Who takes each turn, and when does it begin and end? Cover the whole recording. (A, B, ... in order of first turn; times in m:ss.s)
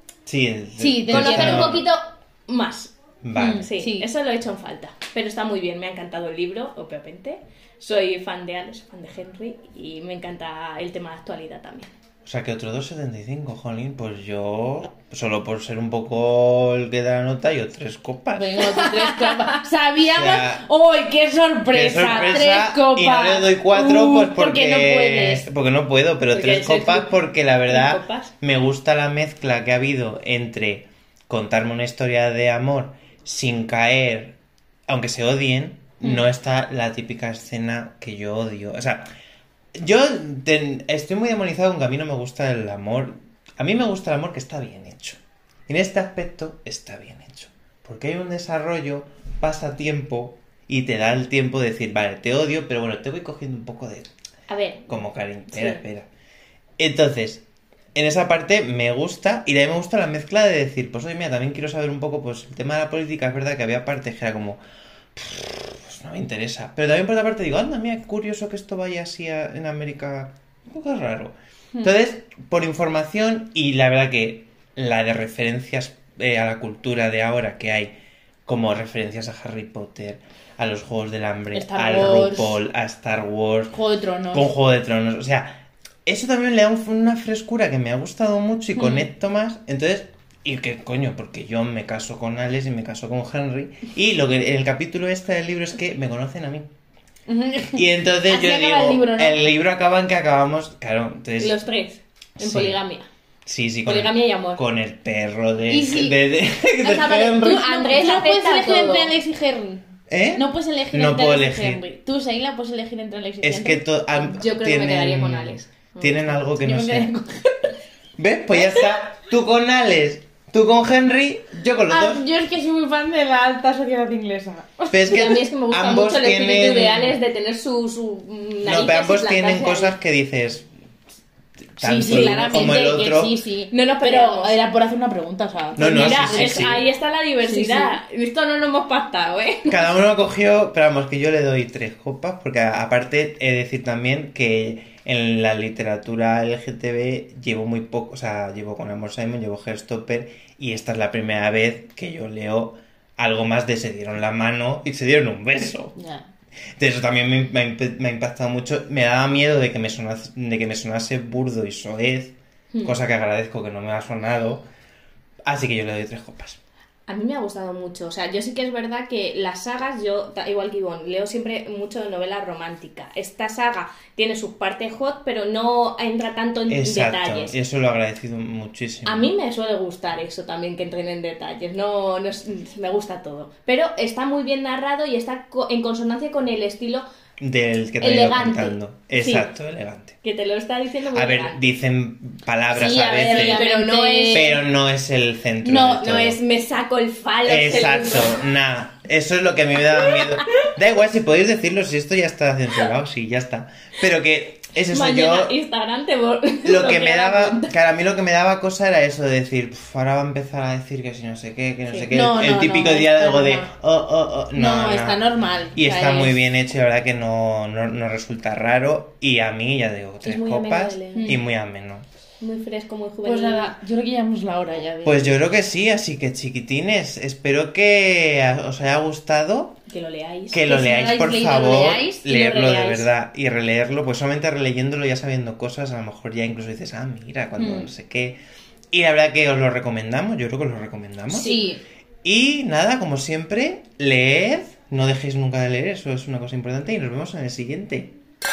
0:00.2-0:01.9 A
0:00.8-0:01.8 B
0:01.1-0:02.9 C
0:03.2-0:03.7 A
0:03.4-0:04.1 B
0:03.6-0:11.9 C
0:12.2-0:18.8 A
0:18.4-0:25.5 B
0:19.0-0:19.6 C
0:20.0-0:20.6 A
0:21.7-0:34.4 A
0:26.3-0:28.3 C
0:34.9-0:39.1 A
0:39.8-0:54.1 A
0:54.5-0:55.0 C
0:54.9-0:56.1 A
0:55.5-0:55.8 C
0:56.8-1:04.6 A
1:05.1-1:17.9 A
1:18.5-1:23.8 A
1:21.5-1:22.6 B
1:23.7-1:24.5 B
1:24.3-1:36.7 A
1:37.3-1:39.5 B
1:37.7-1:41.6 A
1:41.4-1:43.1 C
1:42.4-1:42.8 A
1:43.5-1:47.6 A
1:43.9-1:44.6 C
1:45.7-1:46.2 B
1:46.8-1:53.8 B
1:47.4-1:49.2 C
1:50.1-1:51.8 A
1:53.4-1:57.1 A
1:54.2-1:56.4 C
1:56.6-1:57.7 B
1:58.2-2:02.3 A
2:01.9-2:05.2 B
2:04.9-2:07.2 A
2:05.0-2:10.0 C
2:08.6-2:10.7 A
2:11.8-2:13.4 A
2:11.8-2:16.8 B
2:12.0-2:13.0 C
2:13.7-2:14.5 C
2:15.8-2:16.8 A
2:15.8-2:19.8 C
2:17.4-2:18.0 B
2:19.7-2:36.0 A
2:36.0-2:36.3 B
2:36.8-2:44.7 A
2:45.4-2:46.6 A
2:47.1-2:57.6 C
2:56.7-2:59.3 A
2:59.0-3:07.1 C
3:07.4-3:10.2 A
3:08.0-3:09.5 C
3:10.2-3:11.6 C
3:11.1-3:13.7 A
3:12.8-3:14.5 B
3:12.9-3:14.6 C
3:14.3-3:16.4 A
3:15.6-3:18.4 C
3:17.4-3:25.6 A
3:20.0-3:20.7 C
3:24.9-3:27.7 C
3:26.6-3:42.0 A
3:31.9-3:32.1 C
3:32.1-3:33.7 B
3:34.6-3:36.4 B
3:40.2-3:41.4 C
3:41.2-3:41.4 B
3:42.4-3:43.7 C
3:43.2-3:45.4 B
3:45.0-3:49.8 A
3:49.9-3:50.6 C
3:50.5-3:58.4 A
3:50.6-3:52.3 B
3:52.3-3:53.0 C
3:57.6-3:57.9 B
3:58.9-4:01.6 A
4:01.3-4:01.8 B
4:02.2-4:08.1 A